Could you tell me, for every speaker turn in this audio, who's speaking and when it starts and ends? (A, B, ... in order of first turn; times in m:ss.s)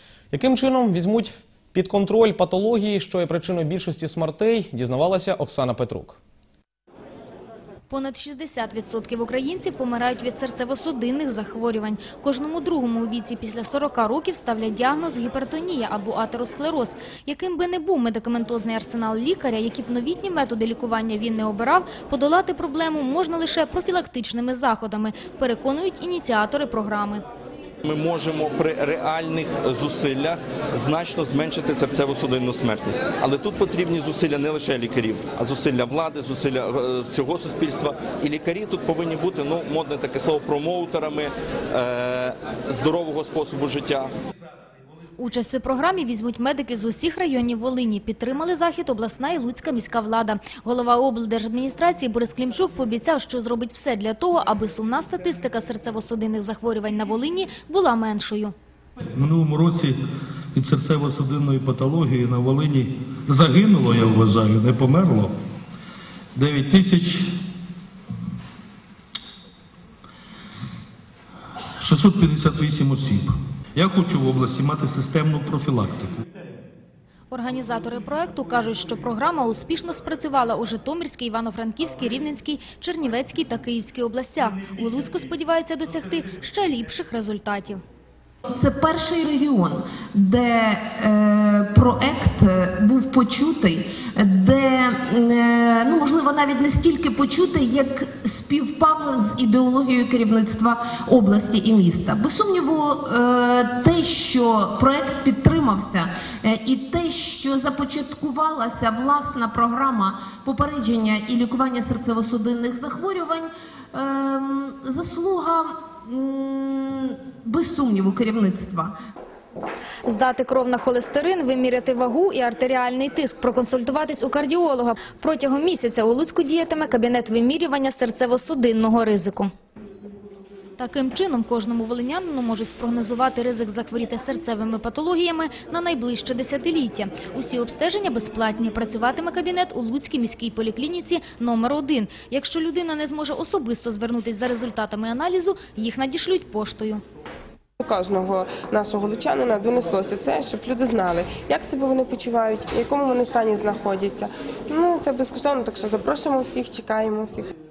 0:00.3-0:06.2 A
0:07.9-0:27.2 B
0:27.8-0:44.1 C
0:45.2-0:58.5 B
0:59.2-1:00.0 D
1:00.5-1:05.3 D
1:06.3-1:07.4 D
1:11.8-1:16.2 D
1:17.3-1:27.8 B
1:28.5-1:59.0 E
2:00.1-2:09.5 B
2:10.8-2:27.0 B
2:27.8-2:37.5 F